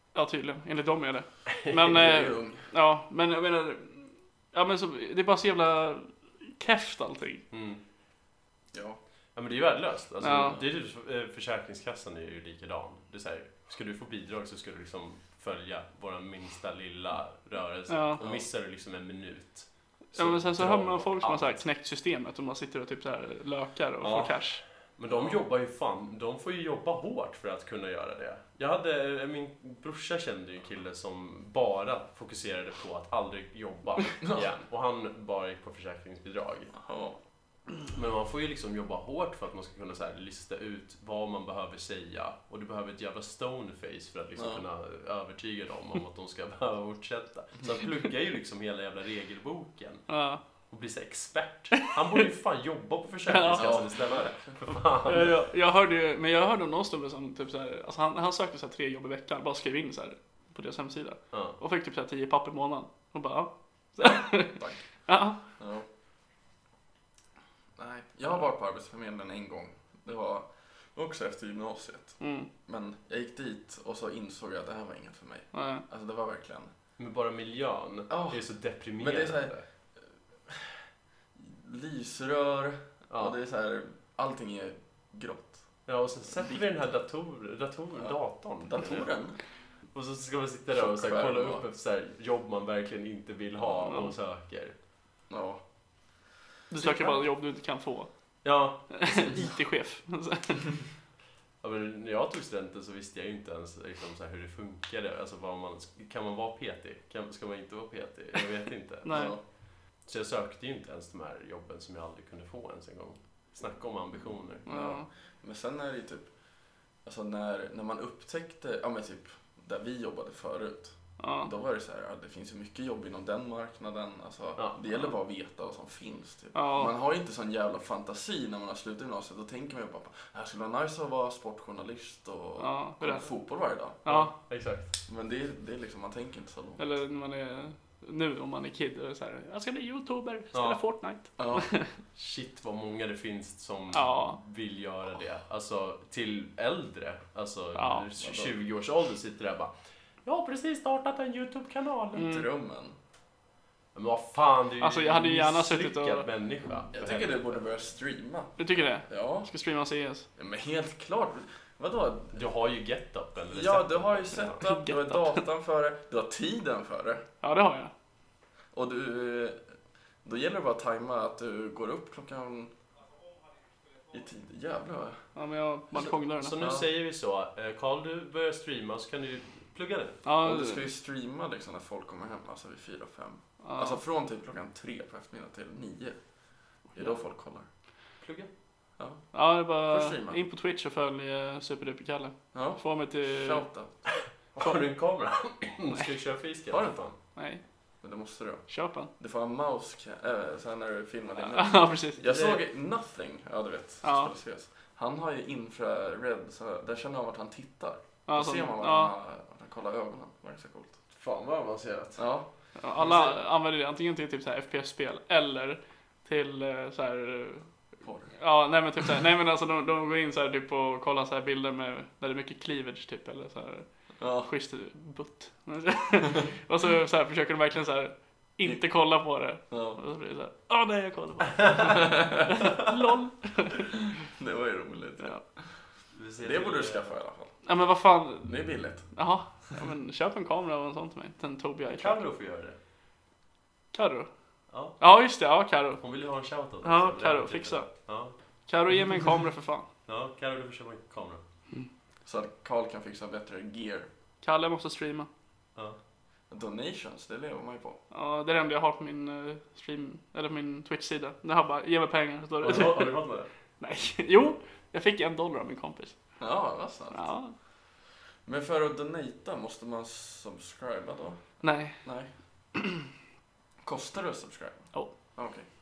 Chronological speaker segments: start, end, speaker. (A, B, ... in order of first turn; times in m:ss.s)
0:00.1-0:07.4 A
0:01.5-0:02.3 B
0:01.9-0:02.6 C
0:07.5-0:07.8 B
0:08.7-0:09.0 C
0:09.4-0:21.6 B
0:10.2-0:10.6 A
0:10.2-0:10.6 C
0:17.9-0:18.2 A
0:18.2-0:18.4 C
0:20.1-0:24.6 A
0:24.0-0:36.7 B
0:25.1-0:25.4 C
0:34.2-0:34.5 C
0:36.7-0:37.2 C
0:37.9-0:50.1 B
0:44.4-0:44.6 C
0:50.1-0:50.4 A
0:50.7-0:55.3 B
0:53.3-0:53.8 A
0:53.5-0:54.6 C
0:55.1-1:05.4 A
1:01.3-1:01.6 B
1:05.4-1:05.9 C
1:07.8-1:16.7 C
1:12.2-1:12.5 A
1:15.5-1:15.8 A
1:17.0-1:19.6 B
1:18.1-1:18.4 C
1:19.0-1:19.5 C
1:20.5-1:20.8 C
1:21.4-1:25.6 C
1:23.1-1:23.4 B
1:25.9-1:29.1 B
1:28.6-1:29.4 C
1:29.9-1:34.8 B
1:30.7-1:31.6 C
1:33.8-1:34.1 A
1:35.3-1:35.6 C
1:36.7-1:38.1 A
1:36.8-1:37.2 B
1:38.4-1:39.5 B
1:38.9-1:40.7 A
1:41.6-1:49.3 B
1:49.0-1:49.4 A
1:49.1-1:49.4 C
1:50.1-1:54.7 B
1:54.7-1:55.1 A
1:54.7-1:56.3 C
1:57.0-2:14.0 C
2:01.2-2:01.5 A
2:06.6-2:06.9 A
2:12.6-2:13.3 A
2:14.0-2:14.3 A
2:14.1-2:14.9 B
2:15.1-2:16.9 C
2:16.8-2:21.9 A
2:20.5-2:20.8 B
2:21.4-2:21.7 C
2:22.1-2:29.7 B
2:23.9-2:24.4 A
2:27.8-2:28.1 A
2:28.2-2:28.6 C
2:30.2-2:32.3 B
2:32.1-2:32.5 A
2:32.2-2:33.0 C
2:33.9-2:37.6 B
2:34.8-2:36.3 A
2:36.9-2:39.5 C
2:38.6-2:40.3 A
2:40.4-2:42.4 C
2:42.3-2:44.6 B
2:43.5-2:47.2 C
2:44.6-2:45.4 A
2:47.4-2:47.9 A
2:48.7-2:49.6 C
2:50.2-2:52.7 C
2:54.1-2:55.2 C
2:55.4-2:56.7 A
2:56.1-3:00.2 B
3:00.2-3:00.9 A
3:00.4-3:06.2 C
3:03.6-3:04.0 A
3:07.0-3:07.6 C
3:08.2-3:08.5 B
3:09.0-3:09.2 C
3:09.3-3:13.6 A
3:09.9-3:10.4 C
3:12.5-3:13.9 C
3:14.5-3:17.1 B
3:16.7-3:17.0 C
3:17.4-3:17.6 A
3:18.0-3:18.6 C
3:18.7-3:19.1 A
3:19.2-3:31.0 C
3:21.4-3:22.2 A
3:22.2-3:22.6 B
3:24.0-3:24.3 A
3:28.3-3:29.1 A
3:31.1-3:32.2 B
3:32.2-3:32.5 C
3:32.8-3:37.7 A
3:33.0-3:33.3 C
3:38.0-3:38.3 C
3:38.4-3:43.9 A
3:44.2-3:44.5 C
3:44.4-3:54.0 A
3:49.7-3:50.0 C
3:51.9-3:52.5 C
3:54.2-3:55.6 C
3:56.1-3:57.1 B
3:56.4-3:57.5 C
3:57.6-3:58.6 A
3:58.4-3:59.0 C
3:59.1-4:02.2 A
4:01.9-4:02.8 B
4:03.9-4:04.3 A
4:04.7-4:05.0 B
4:05.0-4:06.0 A
4:06.0-4:08.3 B
4:06.8-4:07.9 A
4:08.7-4:09.9 A
4:10.1-4:11.4 B
4:12.2-4:14.1 C
4:14.4-4:15.3 A
4:16.5-4:18.0 C
4:18.1-4:23.2 A
4:22.6-4:23.5 B
4:23.8-4:26.2 A
4:26.4-4:27.3 C
4:27.1-4:27.6 A
4:28.4-4:32.3 C
4:31.6-4:32.0 A
4:32.8-4:33.1 A
4:33.8-4:35.6 C